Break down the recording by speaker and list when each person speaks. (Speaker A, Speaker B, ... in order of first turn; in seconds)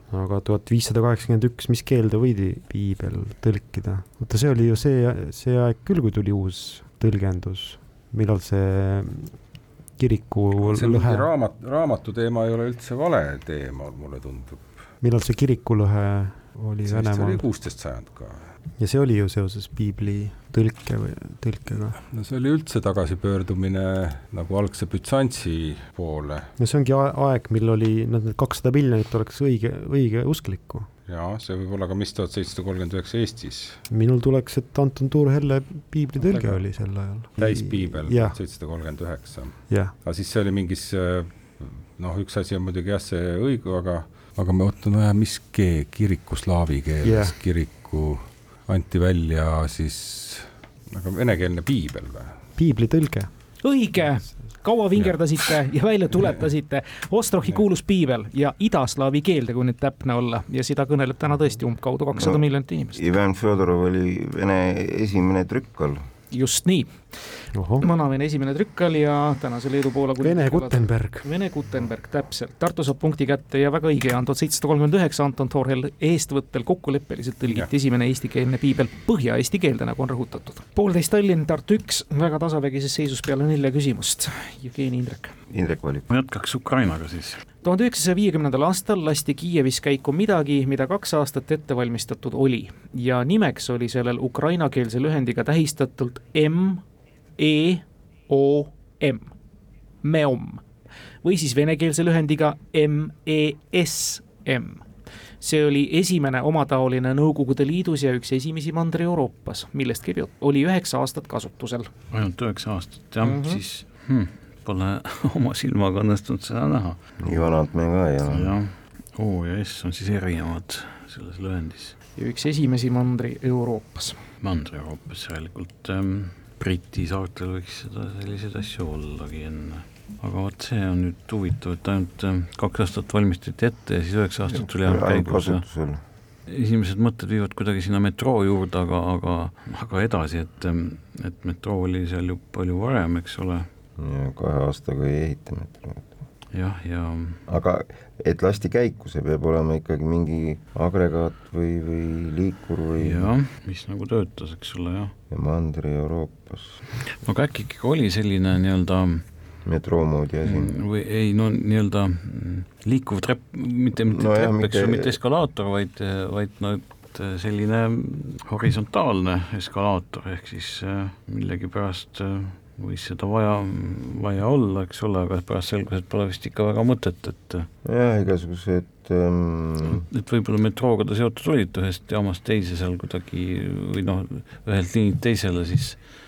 Speaker A: 0.1-9.3, 10.0-11.3, 15.0-17.4, 18.8-22.0, 26.6-30.9, 33.9-38.4, 39.7-39.9, 47.0-47.4, 52.6-53.3, 67.5-67.8, 70.2-71.2
Speaker B: 10.6-14.7, 16.9-18.4, 22.1-26.5, 31.1-33.8, 36.3-52.3
Speaker C: 53.6-63.0, 66.3-66.9, 67.8-85.3, 87.6-96.8, 97.4-99.3, 100.0-100.6, 101.2-104.8, 105.4-111.9, 113.2-113.6, 122.2-124.2
Speaker D: 62.2-62.4, 62.9-66.0, 85.5-86.0, 117.2-118.5, 134.5-136.0, 144.0-146.1, 147.5-153.3, 155.3-156.8, 159.7-160.7, 164.1-165.1, 177.8-180.1
Speaker E: 86.1-87.4, 112.1-117.5, 118.2-122.0, 124.4-135.6, 136.5-143.7, 146.5-147.4, 153.0-155.1, 157.1-159.2, 160.4-177.7, 179.9-186.0